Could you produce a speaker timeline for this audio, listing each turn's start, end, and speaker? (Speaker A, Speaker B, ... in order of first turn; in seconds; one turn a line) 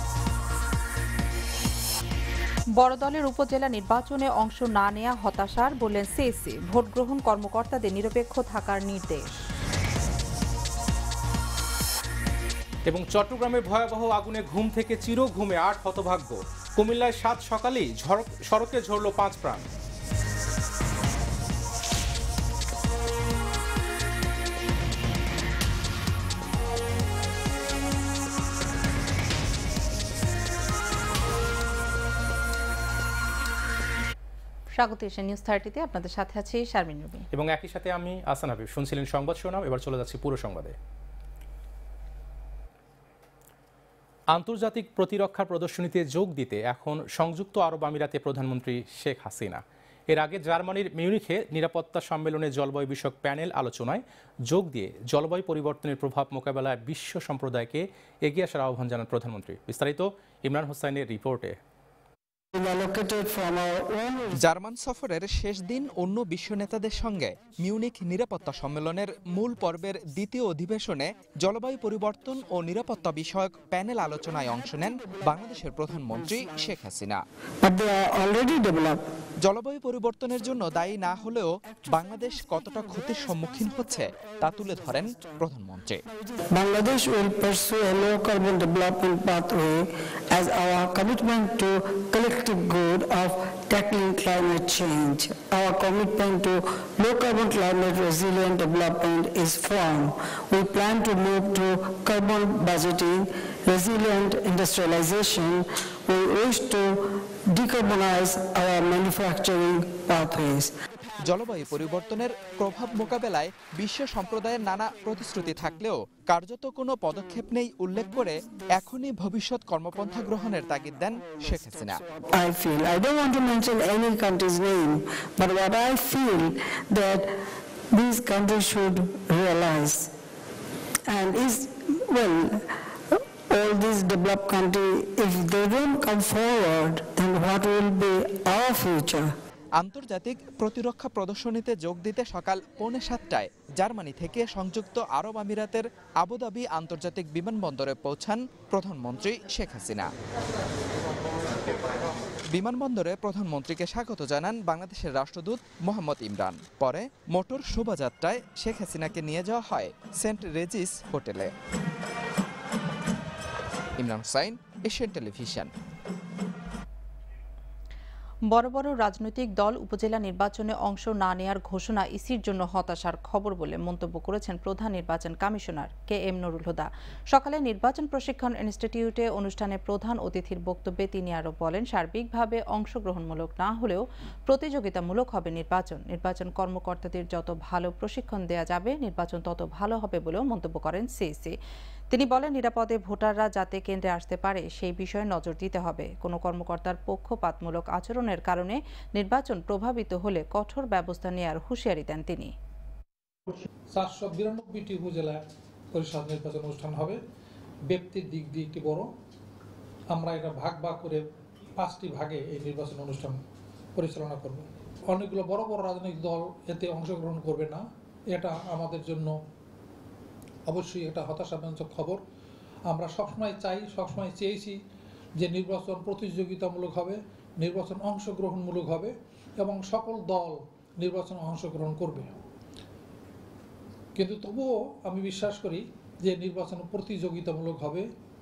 Speaker A: 2.8-9.4
Speaker B: 12.9-19.7
Speaker A: 34.8-37.3
Speaker B: 37.3-40.8
Speaker B: 44.3-61.6
Speaker C: 62.5-64.3
Speaker D: 64.4-77.2
Speaker C: 77.6-79.0
Speaker D: 79.5-86.0
Speaker C: 86.5-110.7
Speaker D: 111.3-122.0
Speaker C: 122.3-127.3
Speaker C: 127.9-130.1
Speaker C: 131.1-132.7
Speaker C: 133.5-139.3
Speaker D: 139.8-150.1
Speaker D: 152.5-161.5
Speaker D: 164.0-165.7
Speaker A: 168.5-191.6
Speaker A: 192.1-202.5
Speaker E: 203.5-207.2
Speaker E: 207.9-209.1
Speaker E: 210.1-213.4
Speaker E: 214.0-219.4
Speaker E: 220.7-222.2
Speaker E: 222.9-224.8
Speaker E: 225.4-232.3
Speaker E: 234.2-238.1